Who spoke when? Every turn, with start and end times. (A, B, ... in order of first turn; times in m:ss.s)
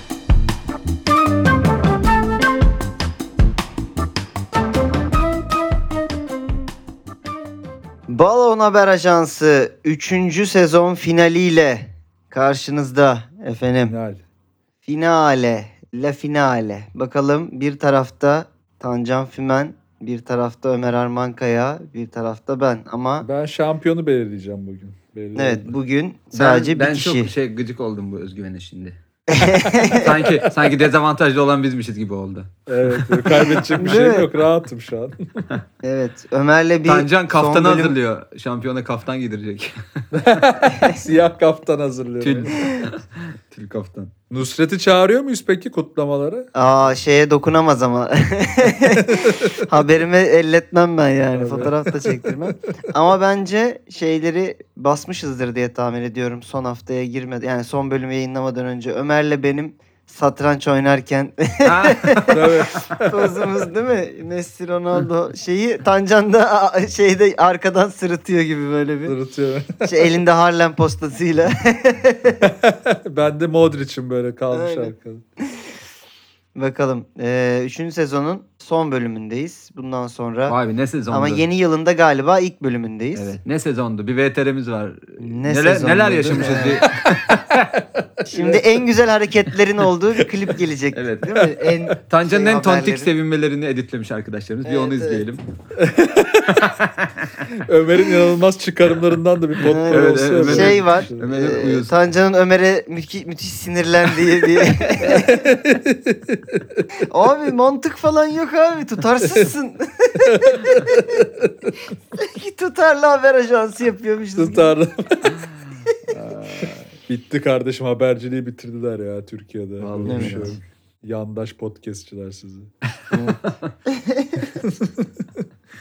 0:08.1-0:13.9 A
0:13.8-0:14.2 B
0:14.8-0:23.3 A
0:23.2-0:25.8 B
0:25.4-0:27.3 A
0:26.3-0:29.0 C
0:29.3-0:30.1 A
0:29.5-0:30.5 B
0:30.0-0:34.1 C
0:32.7-0:35.6 B
0:33.3-0:34.3 A
0:35.8-0:37.9 A
0:36.8-0:40.4 C
0:40.1-0:42.6 B
0:40.7-0:41.0 A
0:42.2-0:44.1 C
0:42.6-0:42.8 A
0:44.3-0:46.5 B
0:46.5-1:02.4 A
0:48.8-0:49.7 B
0:51.3-0:52.4 B
1:01.6-1:02.6 C
1:02.3-1:03.5 B
1:03.0-1:09.1 A
1:09.0-1:10.2 B
1:09.8-1:12.4 A
1:12.4-1:15.2 B
1:14.5-1:14.9 A
1:16.5-1:20.6 A
1:20.5-1:21.4 C
1:21.1-1:23.3 A
1:23.1-1:27.4 C
1:25.2-1:26.8 A
1:26.3-1:28.8 B
1:28.3-1:33.1 A
1:30.9-1:31.4 C
1:31.4-1:31.9 B
1:32.0-1:35.4 C
1:34.6-1:35.2 A
1:35.8-1:36.7 B
1:36.5-1:37.4 C
1:37.5-1:41.3 B
1:39.6-1:45.5 A
1:39.9-1:42.0 C
1:45.0-1:47.0 B
1:47.0-1:51.2 A
1:50.2-1:51.7 B
1:52.2-1:54.8 A
1:54.3-1:55.4 B
1:56.1-2:02.7 B
1:59.8-2:00.6 C
2:00.0-2:00.5 A
2:03.1-2:04.5 A
2:03.4-2:03.7 C
2:04.5-2:05.4 B